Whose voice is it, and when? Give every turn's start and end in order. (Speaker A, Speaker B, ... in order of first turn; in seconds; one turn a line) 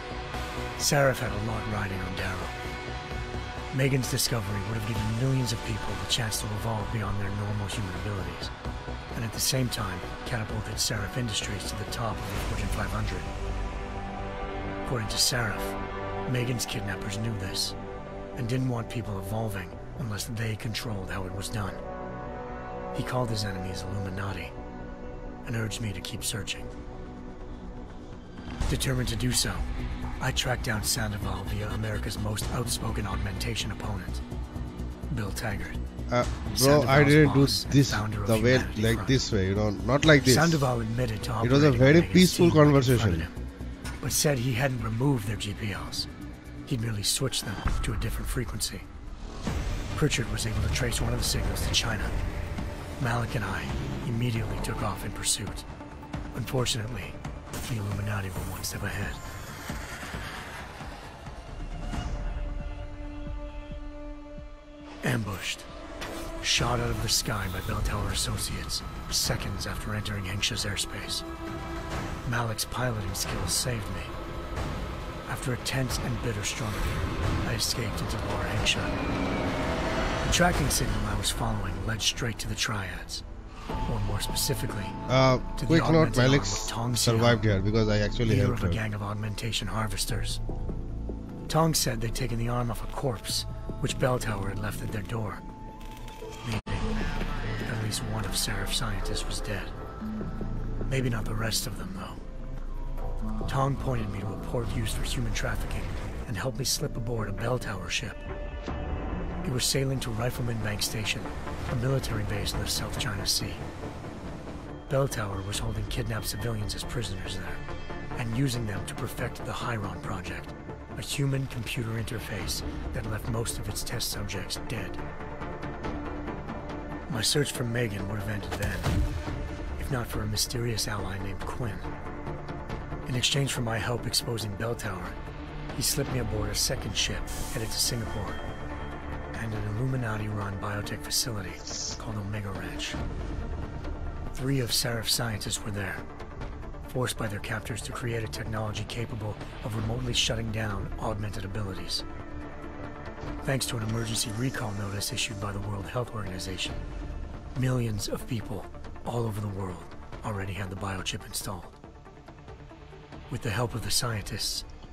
Speaker A: 0.8-2.6
Speaker A: 3.7-8.5
Speaker A: 9.1-13.3
Speaker A: 14.8-17.8
Speaker A: 18.4-21.8
Speaker A: 22.9-24.5
Speaker A: 25.4-26.7
Speaker A: 28.7-29.7
Speaker A: 30.2-34.2
Speaker A: 35.1-35.8
Speaker B: 36.1-40.7
Speaker A: 36.5-39.2
Speaker A: 40.2-43.4
Speaker B: 41.4-43.3
Speaker A: 44.0-46.1
Speaker A: 46.7-48.9
Speaker A: 49.9-52.1
Speaker A: 53.0-55.7
Speaker A: 56.3-59.2
Speaker A: 65.0-65.7
Speaker A: 66.4-71.3
Speaker A: 72.2-74.1
Speaker A: 75.3-79.0
Speaker A: 80.2-83.2
Speaker A: 83.9-85.0
Speaker B: 85.1-88.8
Speaker A: 85.6-87.5
Speaker A: 88.2-90.4
Speaker A: 91.5-95.4
Speaker A: 96.4-97.0
Speaker A: 97.6-99.7
Speaker A: 100.9-102.2
Speaker A: 103.5-108.2
Speaker A: 109.4-113.6
Speaker A: 114.9-117.6
Speaker A: 118.2-125.0
Speaker A: 127.1-129.0
Speaker A: 129.8-131.9
Speaker A: 133.1-135.2
Speaker A: 135.7-138.4
Speaker A: 139.3-143.0
Speaker A: 144.3-146.1
Speaker A: 146.9-152.0
Speaker A: 153.4-156.8
Speaker A: 157.6-161.8
Speaker A: 163.3-164.7